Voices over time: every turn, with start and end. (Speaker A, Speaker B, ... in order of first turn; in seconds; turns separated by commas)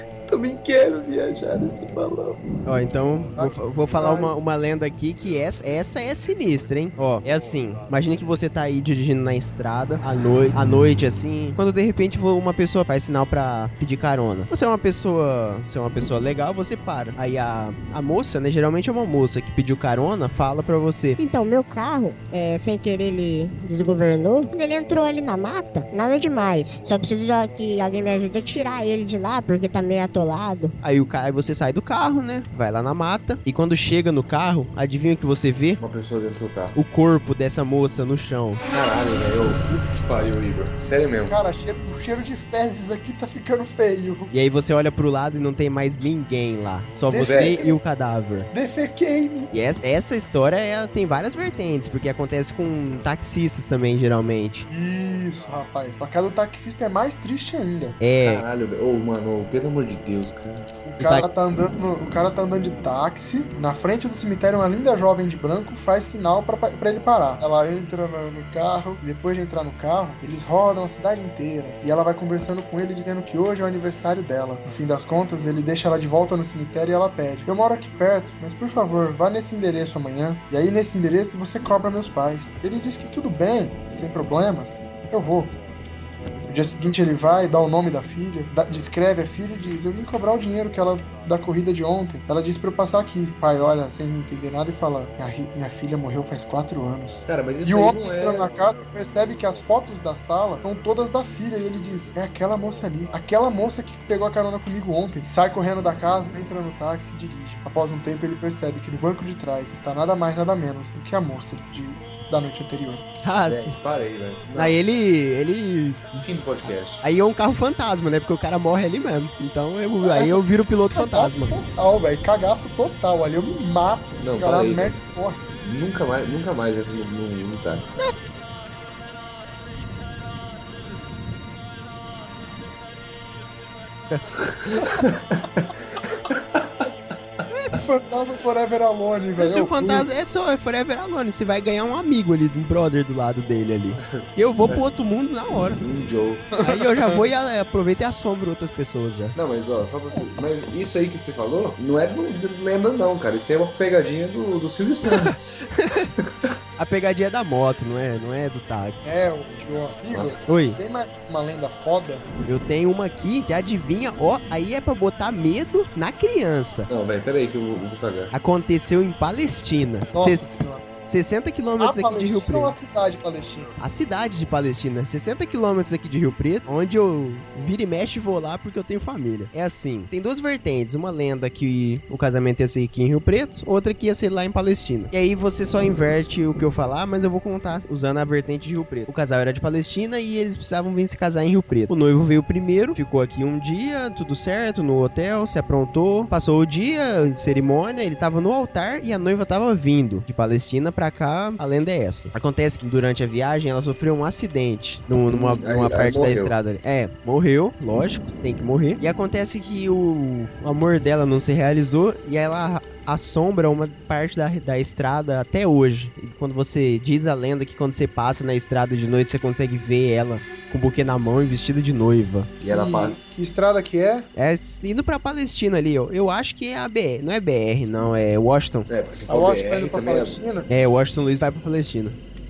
Speaker A: 0.2-2.4, Speaker B: 2.6-21.2, Speaker C: 3.3-4.3, Speaker D: 21.2-30.8, Speaker B: 30.8-35.8, Speaker A: 35.8-36.8, Speaker B: 36.8-38.6, Speaker A: 38.7-41.4, Speaker C: 41.3-44.3, Speaker B: 44.3-48.5, Speaker C: 47.1-47.8, Speaker A: 47.2-47.6, Speaker C: 48.5-49.5, Speaker B: 49.5-54.7, Speaker C: 54.7-58.0, Speaker B: 58.0-58.4, Speaker A: 58.2-60.7, Speaker C: 60.8-85.5, Speaker B: 61.0-61.2, Speaker C: 86.5-113.0, Speaker A: 97.2-98.7, Speaker B: 113.2-113.8, Speaker A: 113.4-114.8, Speaker B: 114.5-116.0, Speaker A: 116.1-117.0, Speaker B: 117.0-121.6, Speaker C: 120.0-125.4, Speaker A: 124.2-125.0, Speaker A: 125.6-128.0, Speaker A: 134.3-135.7, Speaker A: 136.3-136.9, Speaker B: 137.5-137.8, Speaker C: 137.8-140.1, Speaker B: 139.4-145.8, Speaker A: 144.0-144.8, Speaker A: 145.8-146.5, Speaker C: 146.5-147.2, Speaker B: 146.6-149.3, Speaker A: 149.3-155.6, Speaker B: 155.1-156.1, Speaker A: 156.2-156.5, Speaker B: 156.8-159.1, Speaker C: 159.0-162.3, Speaker A: 160.1-160.4, Speaker B: 160.5-160.8, Speaker B: 162.4-166.9, Speaker A: 166.9-168.3, Speaker B: 168.3-172.8, Speaker C: 170.1-170.8, Speaker C: 171.8-173.7, Speaker B: 173.8-222.5, Speaker A: 205.3-206.5, Speaker A: 222.6-223.2, Speaker C: 222.6-224.3, Speaker B: 224.3-228.9, Speaker A: 228.9-230.4, Speaker C: 229.3-230.7, Speaker B: 230.7-232.2